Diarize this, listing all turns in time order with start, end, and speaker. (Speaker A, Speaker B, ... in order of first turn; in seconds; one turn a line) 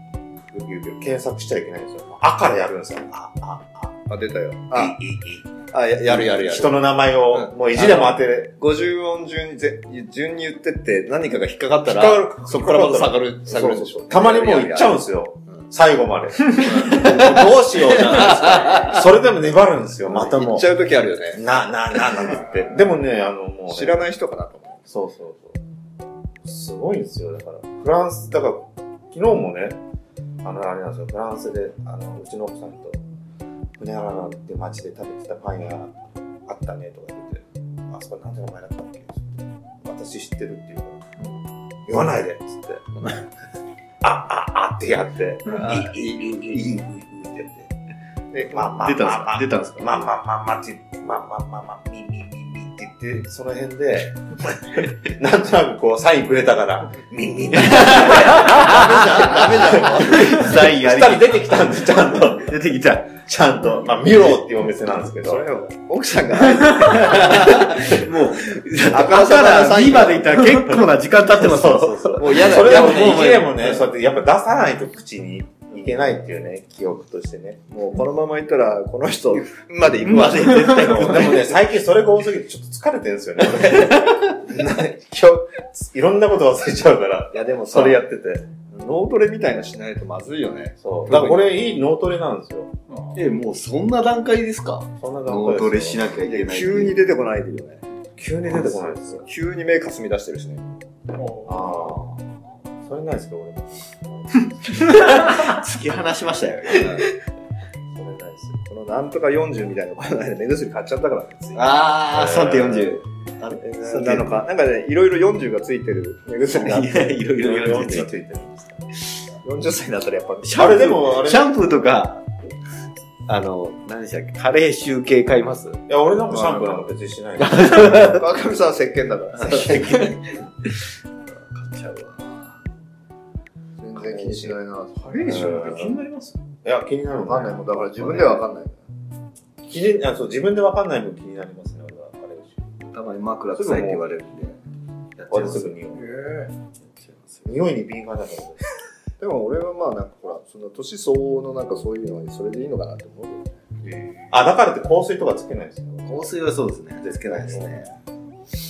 Speaker A: 0.5-4.0
Speaker B: 4.1-5.0
Speaker A: 4.7-5.5
Speaker B: 5.7-15.7
Speaker A: 6.0-8.5
Speaker A: 11.8-20.8
Speaker C: 16.8-19.0
Speaker B: 20.1-21.4
Speaker A: 21.3-24.0
Speaker B: 23.7-24.9
Speaker A: 24.9-25.6
Speaker A: 26.4-29.8
Speaker A: 30.4-33.0
Speaker A: 33.8-41.1
Speaker A: 41.9-42.9
Speaker B: 43.0-43.2
Speaker A: 44.0-47.7
Speaker B: 45.6-46.6
Speaker B: 48.3-48.7
Speaker A: 48.4-58.7
Speaker C: 48.6-50.1
Speaker C: 57.5-61.8
Speaker B: 58.2-60.5
Speaker A: 59.9-65.5
Speaker C: 62.4-63.1
Speaker B: 65.2-68.0
Speaker C: 66.8-73.8
Speaker B: 68.9-70.6
Speaker A: 71.3-77.6
Speaker B: 72.2-73.5
Speaker B: 77.7-81.3
Speaker C: 79.8-81.6
Speaker D: 80.3-81.0
Speaker A: 80.7-88.5
Speaker C: 83.6-84.4
Speaker B: 87.3-88.0
Speaker B: 88.7-91.5
Speaker A: 90.8-92.7
Speaker D: 92.9-93.2
Speaker C: 93.2-97.0
Speaker A: 95.0-96.1
Speaker B: 96.2-97.8
Speaker A: 98.2-99.3
Speaker B: 98.5-100.7
Speaker D: 101.1-102.0
Speaker A: 101.5-102.2
Speaker A: 102.8-105.2
Speaker C: 104.8-107.1
Speaker B: 106.8-107.1
Speaker A: 107.9-108.6
Speaker B: 108.7-111.9
Speaker C: 111.5-114.3
Speaker A: 112.1-113.0
Speaker B: 113.6-117.2
Speaker A: 113.9-114.2
Speaker C: 116.5-118.1
Speaker A: 117.4-118.9
Speaker B: 119.4-121.1
Speaker C: 120.4-122.3
Speaker A: 120.5-121.5
Speaker C: 123.3-125.8
Speaker A: 125.9-128.1
Speaker B: 126.3-126.8
Speaker C: 127.4-128.2
Speaker B: 127.9-130.2
Speaker C: 129.4-132.6
Speaker B: 133.8-135.6
Speaker A: 133.9-134.6
Speaker D: 135.0-136.4
Speaker A: 135.2-136.0
Speaker A: 136.6-138.5
Speaker B: 137.2-138.8
Speaker A: 139.6-142.6
Speaker C: 142.9-144.6
Speaker A: 143.5-144.1
Speaker C: 145.2-145.7
Speaker A: 145.3-146.2
Speaker B: 145.9-146.5
Speaker C: 146.8-147.6
Speaker A: 147.5-148.7
Speaker B: 149.2-153.7
Speaker C: 153.8-154.3
Speaker A: 154.3-156.3
Speaker C: 156.1-157.9
Speaker A: 157.0-157.7